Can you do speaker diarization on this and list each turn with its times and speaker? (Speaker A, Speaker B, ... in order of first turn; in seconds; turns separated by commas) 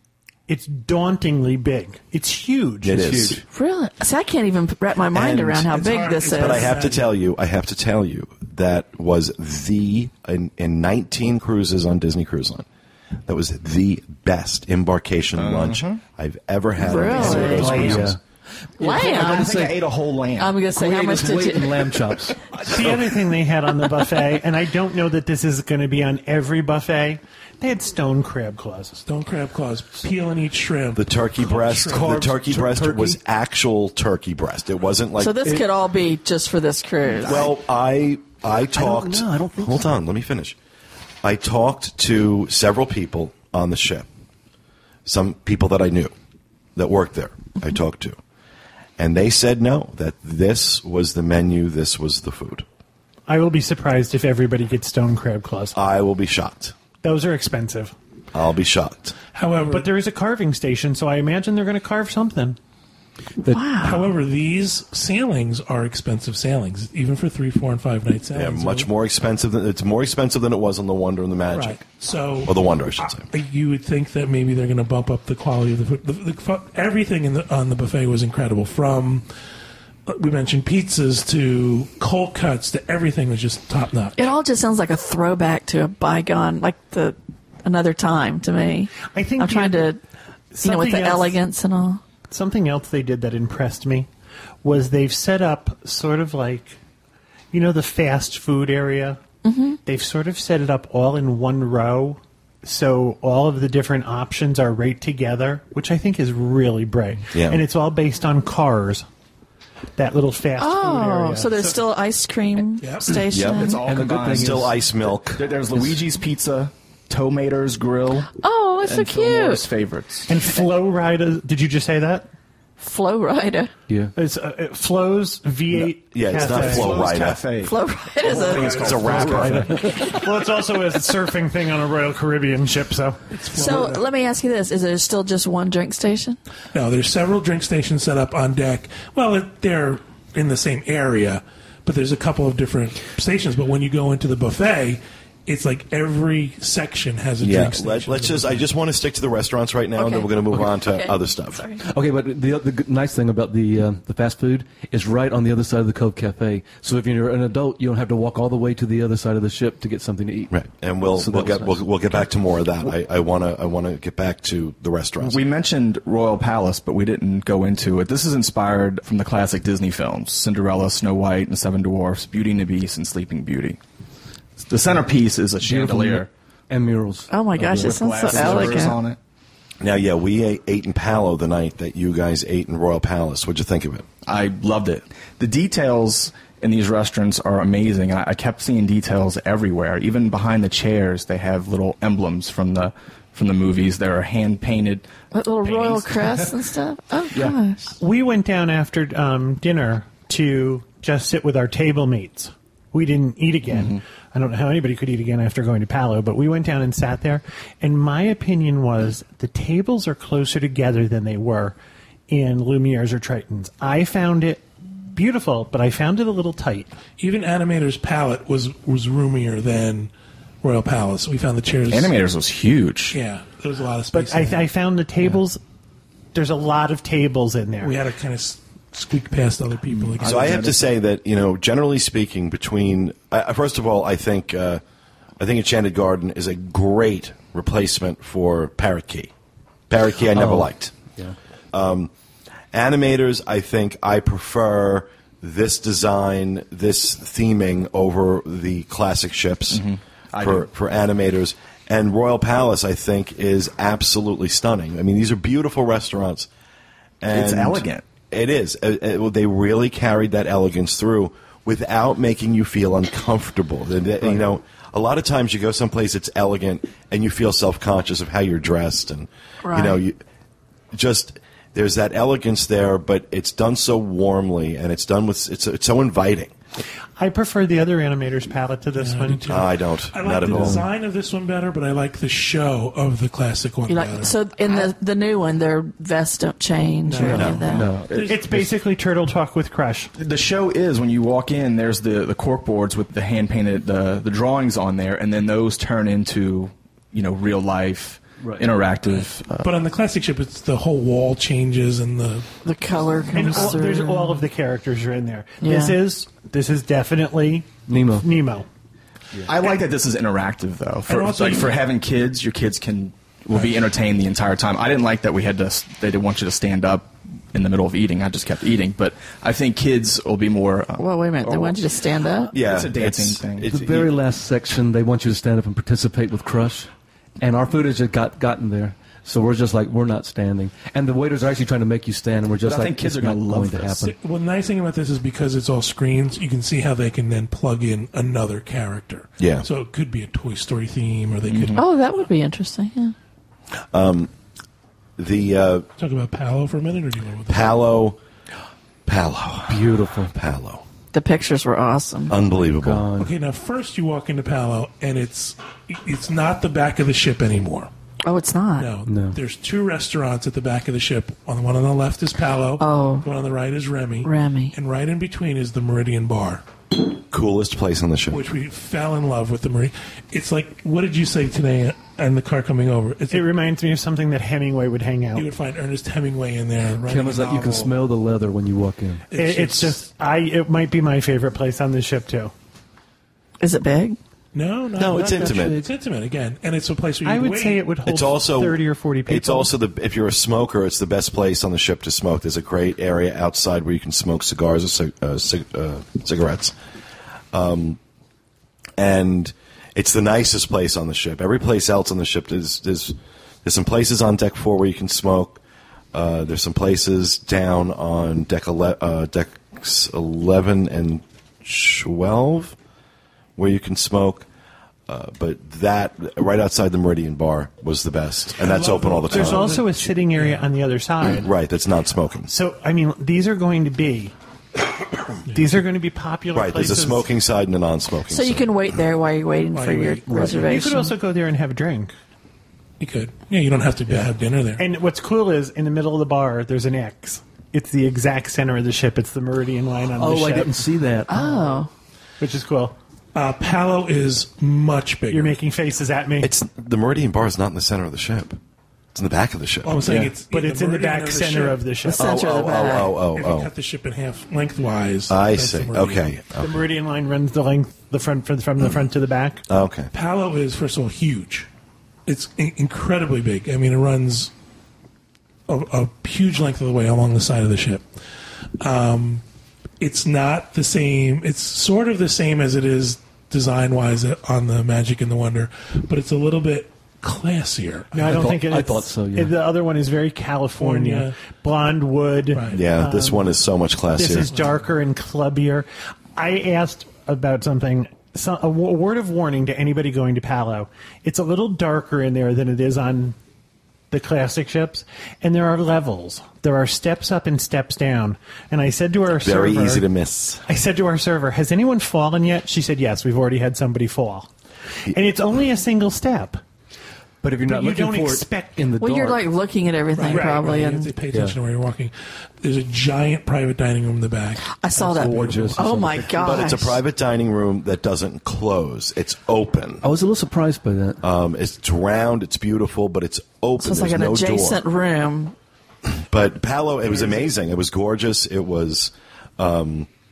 Speaker A: 0.5-3.2, Speaker B: 2.8-3.4, Speaker C: 3.0-3.4, Speaker D: 3.5-6.7, Speaker B: 5.1-5.7, Speaker E: 5.7-7.1, Speaker B: 6.3-12.7, Speaker B: 13.2-18.1, Speaker F: 15.3-16.0, Speaker D: 16.8-18.0, Speaker C: 17.1-18.2, Speaker F: 17.2-18.0, Speaker A: 17.2-18.1, Speaker C: 18.8-19.8, Speaker D: 18.8-19.6, Speaker F: 18.8-20.6, Speaker D: 20.4-22.0, Speaker C: 20.7-23.0, Speaker A: 22.6-29.0, Speaker E: 29.0-32.3, Speaker B: 30.9-35.4, Speaker C: 31.9-33.2, Speaker D: 35.2-37.5, Speaker B: 37.2-40.5, Speaker C: 38.7-39.9, Speaker B: 41.2-44.1, Speaker B: 45.0-46.1, Speaker B: 46.8-48.2, Speaker B: 49.0-52.6, Speaker A: 53.3-55.8, Speaker B: 55.7-56.7, Speaker A: 57.0-57.9, Speaker B: 58.3-59.2, Speaker E: 59.3-59.9, Speaker A: 59.6-62.6, Speaker D: 63.5-64.0, Speaker E: 63.8-68.9, Speaker B: 68.3-71.8, Speaker E: 71.5-79.2, Speaker B: 72.4-73.3, Speaker E: 80.1-84.2, Speaker D: 84.2-90.0, Speaker A: 89.1-89.9, Speaker A: 90.5-91.4, Speaker D: 90.6-92.0, Speaker A: 92.3-94.1, Speaker A: 94.6-96.8, Speaker A: 97.5-99.2, Speaker D: 99.4-99.8, Speaker A: 99.8-109.0, Speaker B: 107.3-107.6, Speaker A: 110.0-111.8, Speaker D: 110.6-113.8, Speaker E: 112.8-113.2, Speaker B: 113.3-113.7, Speaker F: 113.3-120.4, Speaker C: 113.9-114.7, Speaker B: 114.3-115.5, Speaker D: 118.3-119.6, Speaker A: 120.3-122.3, Speaker D: 122.8-123.7, Speaker A: 124.1-127.1, Speaker B: 125.7-127.4, Speaker F: 126.4-129.9, Speaker D: 127.6-128.9, Speaker E: 128.3-129.6, Speaker B: 128.5-129.9, Speaker A: 129.2-133.3, Speaker D: 129.9-130.2, Speaker E: 133.3-134.0, Speaker D: 133.4-136.4, Speaker E: 136.7-148.7, Speaker B: 147.4-151.6, Speaker D: 150.0-151.8, Speaker C: 151.8-160.5, Speaker B: 160.5-165.4, Speaker C: 161.1-162.1, Speaker F: 165.2-173.8, Speaker F: 174.6-176.3, Speaker C: 175.6-178.9, Speaker D: 177.3-179.0, Speaker F: 177.8-179.2, Speaker B: 179.8-184.1, Speaker F: 184.2-195.1, Speaker D: 195.3-197.9, Speaker F: 195.6-196.5, Speaker F: 197.3-197.6, Speaker A: 198.0-211.8, Speaker F: 203.7-204.0, Speaker A: 212.3-216.9, Speaker E: 217.2-220.1, Speaker E: 220.6-222.1, Speaker F: 221.9-223.2, Speaker E: 223.1-224.7, Speaker A: 224.1-225.6, Speaker A: 226.3-228.0, Speaker E: 227.8-230.6, Speaker F: 229.9-230.9, Speaker B: 230.2-234.8, Speaker B: 235.4-239.3, Speaker B: 239.9-240.9, Speaker C: 240.3-241.3, Speaker B: 241.7-242.1, Speaker B: 242.7-249.8, Speaker F: 249.7-250.7, Speaker B: 250.4-256.5, Speaker B: 257.2-270.2, Speaker F: 257.3-258.0, Speaker D: 269.6-270.0, Speaker B: 270.9-276.5, Speaker A: 277.2-279.4, Speaker E: 278.9-284.3, Speaker B: 279.5-280.8, Speaker C: 280.4-280.9, Speaker D: 283.9-287.9, Speaker E: 287.0-288.6, Speaker C: 287.2-288.1, Speaker F: 287.2-288.6, Speaker A: 288.2-290.1, Speaker F: 290.2-299.7, Speaker C: 298.4-298.7, Speaker E: 299.6-302.6, Speaker D: 302.6-304.4, Speaker A: 303.3-308.7, Speaker D: 305.6-306.0, Speaker C: 307.9-308.2, Speaker F: 309.4-321.9, Speaker E: 311.1-311.8, Speaker D: 321.0-322.5, Speaker B: 322.5-324.1, Speaker F: 322.5-323.8, Speaker C: 323.7-326.9, Speaker C: 327.4-334.1, Speaker F: 332.6-334.0, Speaker E: 334.0-341.8, Speaker B: 339.4-339.6, Speaker F: 341.5-341.8, Speaker D: 341.7-343.1, Speaker B: 343.9-344.3, Speaker B: 345.2-345.9, Speaker E: 346.0-347.9, Speaker B: 347.5-348.2, Speaker B: 349.1-350.8, Speaker C: 349.7-350.3, Speaker D: 351.1-352.3, Speaker B: 352.3-353.1, Speaker C: 352.8-353.3, Speaker E: 353.2-357.9, Speaker D: 358.2-358.9, Speaker E: 358.8-366.6, Speaker C: 359.1-359.4, Speaker D: 362.8-363.2, Speaker D: 364.2-364.7, Speaker B: 367.3-368.4, Speaker E: 368.3-373.5, Speaker A: 373.3-375.5, Speaker E: 375.3-378.0, Speaker C: 377.1-379.2, Speaker E: 379.3-380.0, Speaker A: 379.4-382.5, Speaker D: 383.6-384.2, Speaker E: 384.5-387.8, Speaker B: 385.0-385.8, Speaker C: 385.0-385.9, Speaker A: 387.2-389.7, Speaker B: 388.1-396.7, Speaker B: 397.5-398.0, Speaker B: 399.0-405.6, Speaker B: 406.1-412.8, Speaker B: 413.6-414.4, Speaker B: 415.1-419.8, Speaker E: 418.6-420.7, Speaker A: 419.2-421.5, Speaker B: 421.4-422.5, Speaker A: 422.5-424.3, Speaker A: 425.5-427.3, Speaker B: 426.5-428.7, Speaker D: 428.3-431.1, Speaker E: 429.7-430.7, Speaker C: 430.3-430.6, Speaker A: 430.3-432.1, Speaker E: 433.0-434.8, Speaker A: 434.8-441.5, Speaker C: 440.2-441.4, Speaker D: 441.3-441.9, Speaker A: 442.4-442.9, Speaker E: 443.3-445.6, Speaker A: 445.3-446.5, Speaker B: 446.4-448.6, Speaker B: 449.1-450.0, Speaker E: 449.8-452.1, Speaker A: 450.5-452.3, Speaker D: 452.1-453.2, Speaker B: 452.1-453.7, Speaker E: 452.9-456.2, Speaker B: 455.3-456.8, Speaker A: 456.6-459.6, Speaker B: 459.7-460.1, Speaker E: 460.1-461.7, Speaker E: 462.2-464.5, Speaker E: 465.7-468.0, Speaker E: 468.8-469.4, Speaker E: 470.0-478.5, Speaker A: 478.1-483.6, Speaker C: 478.2-479.6, Speaker E: 480.8-481.3, Speaker E: 482.5-482.8, Speaker B: 482.7-484.5, Speaker A: 484.1-493.4, Speaker A: 494.1-500.0, Speaker B: 499.4-500.6, Speaker A: 500.6-504.5, Speaker A: 505.1-506.6, Speaker C: 507.4-509.4, Speaker A: 507.6-508.9, Speaker D: 509.0-511.1, Speaker E: 510.1-515.8, Speaker A: 510.3-510.8, Speaker C: 511.3-511.6, Speaker D: 514.7-517.0, Speaker C: 515.0-516.6, Speaker B: 516.4-520.0, Speaker C: 520.0-521.2, Speaker B: 521.2-524.8, Speaker D: 523.8-525.5, Speaker B: 526.0-530.1, Speaker E: 527.1-527.5